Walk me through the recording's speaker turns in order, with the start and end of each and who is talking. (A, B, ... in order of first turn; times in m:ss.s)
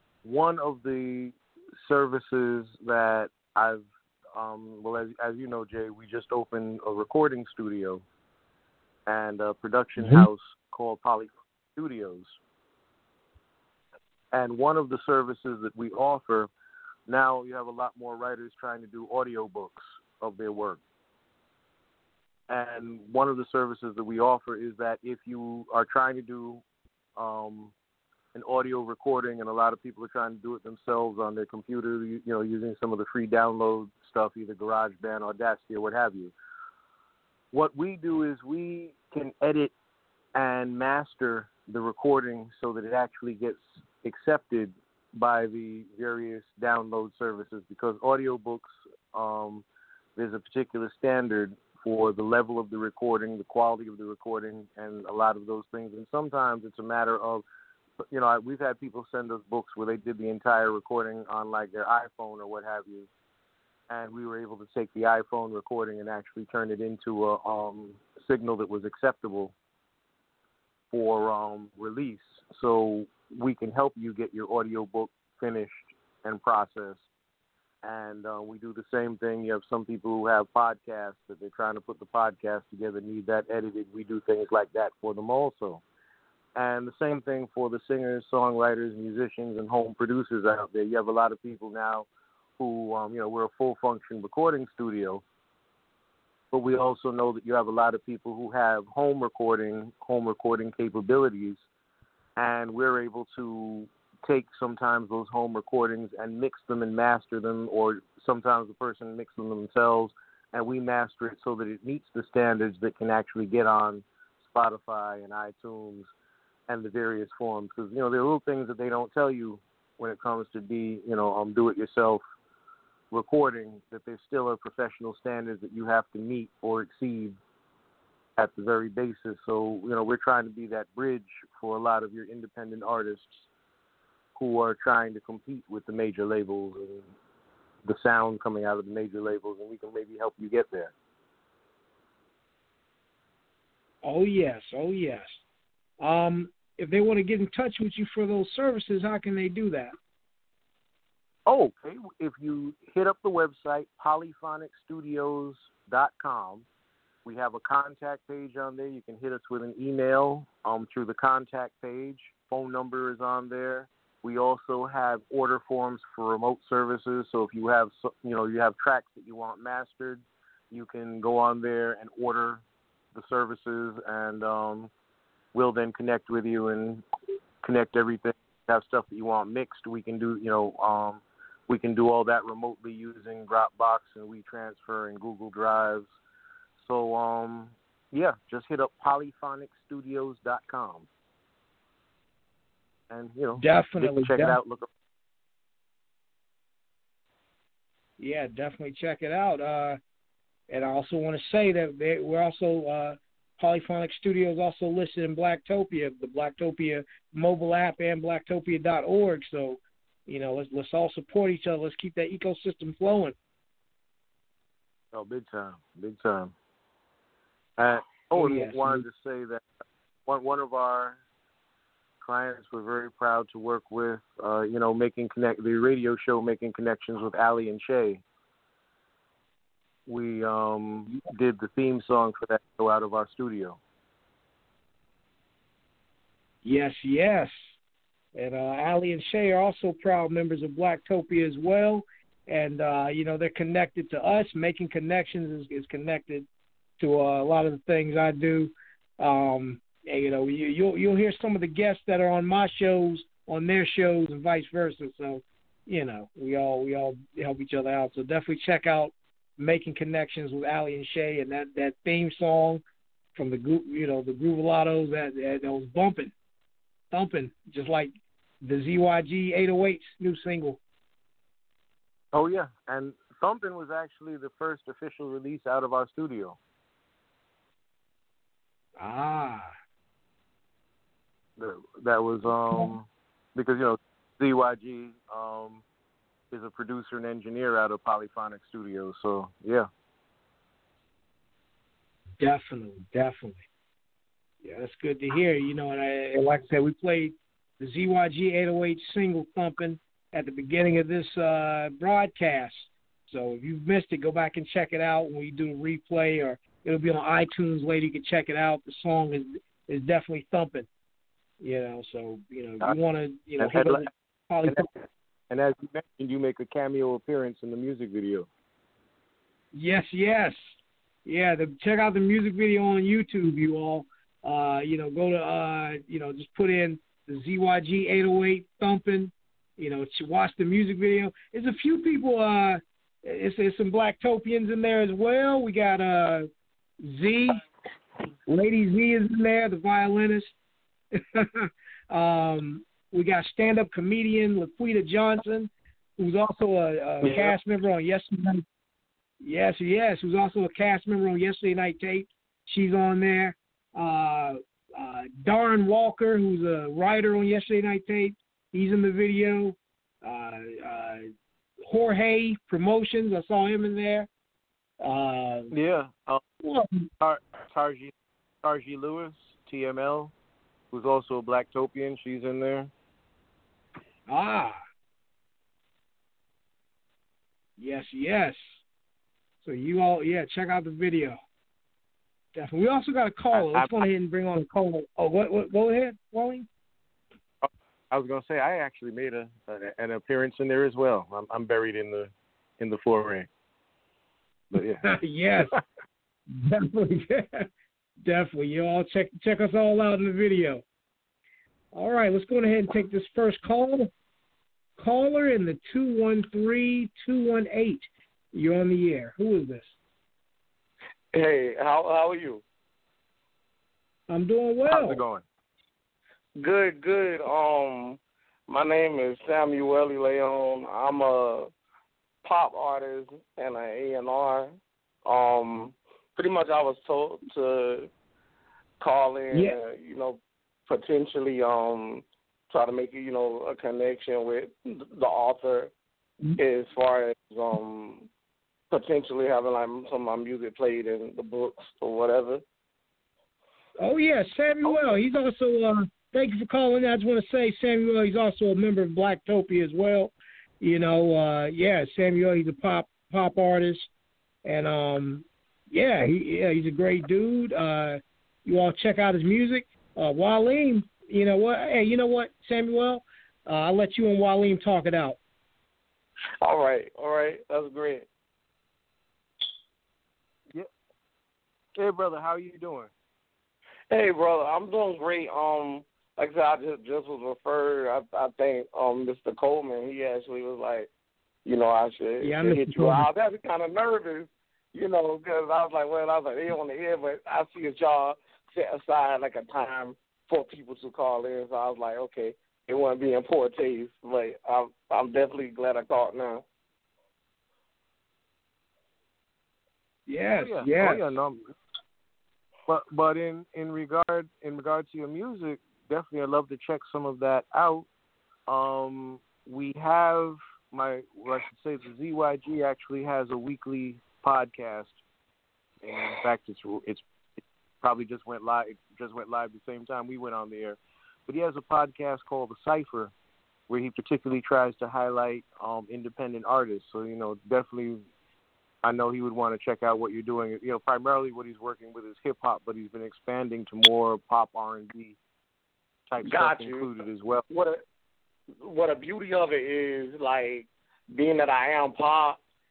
0:00.2-0:08.0 A
0:09.0-0:12.4 A
0:10.0-0:10.3 B
0:14.3-0:16.5 A
0:17.1-0:20.8 A
0:22.5-0:26.6 A
0:27.2-0:27.7 A
0:28.3-0:36.3 A
0:37.5-0:39.7 A
0:40.3-0:49.6 A
0:50.2-0:57.4 A
0:58.0-1:03.1 A
1:03.9-1:09.5 A
1:10.9-1:17.1 A
1:17.8-1:25.8 A
1:26.5-1:32.1 A
1:32.6-1:35.2 A
1:36.5-1:41.6 A
1:42.4-1:56.1 A
1:56.7-2:02.2 A
2:03.1-2:07.4 A
2:08.4-2:13.5 A
2:14.3-2:17.1 A
2:17.8-2:20.9 A
2:24.0-2:25.4 B
2:26.0-2:29.9 B
2:31.4-2:36.6 A
2:37.2-2:54.9 A
2:55.5-2:57.0 A
2:57.6-3:06.1 A
3:06.8-3:11.1 A
3:13.1-3:14.9 A
3:13.6-3:14.6 B
3:18.2-3:20.0 B
3:20.7-3:33.3 B
3:35.1-3:36.5 A
3:37.8-3:39.6 A
3:38.3-3:39.0 B
3:40.2-3:41.2 A
3:42.2-3:48.2 A
3:50.0-3:53.8 A
3:56.6-3:57.8 B
3:58.3-4:06.5 B
4:07.0-4:22.8 B
4:23.3-4:26.3 B
4:27.1-4:30.8 B
4:32.3-4:36.6 A
4:39.0-4:39.7 B
4:41.6-4:45.8 A
4:46.5-4:49.9 A
4:52.4-4:53.6 B
4:54.6-5:10.9 B
5:11.6-5:14.9 B
5:13.6-5:14.1 A
5:14.6-5:15.0 A
5:15.5-5:18.5 A
5:19.7-5:36.5 B
5:37.0-5:37.6 B
5:38.5-5:40.5 B
5:41.1-5:48.6 B
5:47.2-5:47.5 A
5:49.4-6:01.3 B
6:01.8-6:04.3 B
6:05.0-6:05.7 B
6:05.7-6:06.4 A
6:06.6-6:07.1 B
6:07.2-6:10.3 A
6:10.9-6:12.9 A
6:14.3-6:14.8 B
6:17.8-6:18.8 B
6:19.6-6:21.4 B
6:22.5-6:26.7 B
6:23.5-6:24.0 A
6:27.6-6:33.5 A
6:34.7-6:35.1 A
6:35.0-6:35.8 B
6:36.5-6:37.7 B
6:38.2-6:40.8 B
6:41.9-6:44.1 B
6:45.0-6:50.0 B
6:51.3-6:52.6 C
6:54.3-6:55.2 B
6:54.9-6:55.4 A
6:56.6-7:01.7 C
7:02.4-7:08.1 C
7:09.0-7:15.9 C
7:09.5-7:09.8 B
7:16.6-7:18.3 C
7:18.9-7:22.6 C
7:24.0-7:34.1 B
7:34.6-7:45.4 B
7:46.6-7:48.2 C
7:52.0-7:53.1 A
7:54.1-8:01.1 C
8:01.6-8:16.6 C
8:02.4-8:03.3 B
8:20.3-8:21.3 B
8:20.6-8:21.7 A
8:22.9-8:28.1 A
8:28.7-8:35.2 A
8:36.0-8:37.2 A
8:38.0-8:43.3 A
8:43.9-8:48.2 A
8:49.0-8:55.4 A
8:56.3-8:57.6 A
8:56.4-8:57.1 C
8:57.7-8:58.0 C
8:58.8-9:02.6 C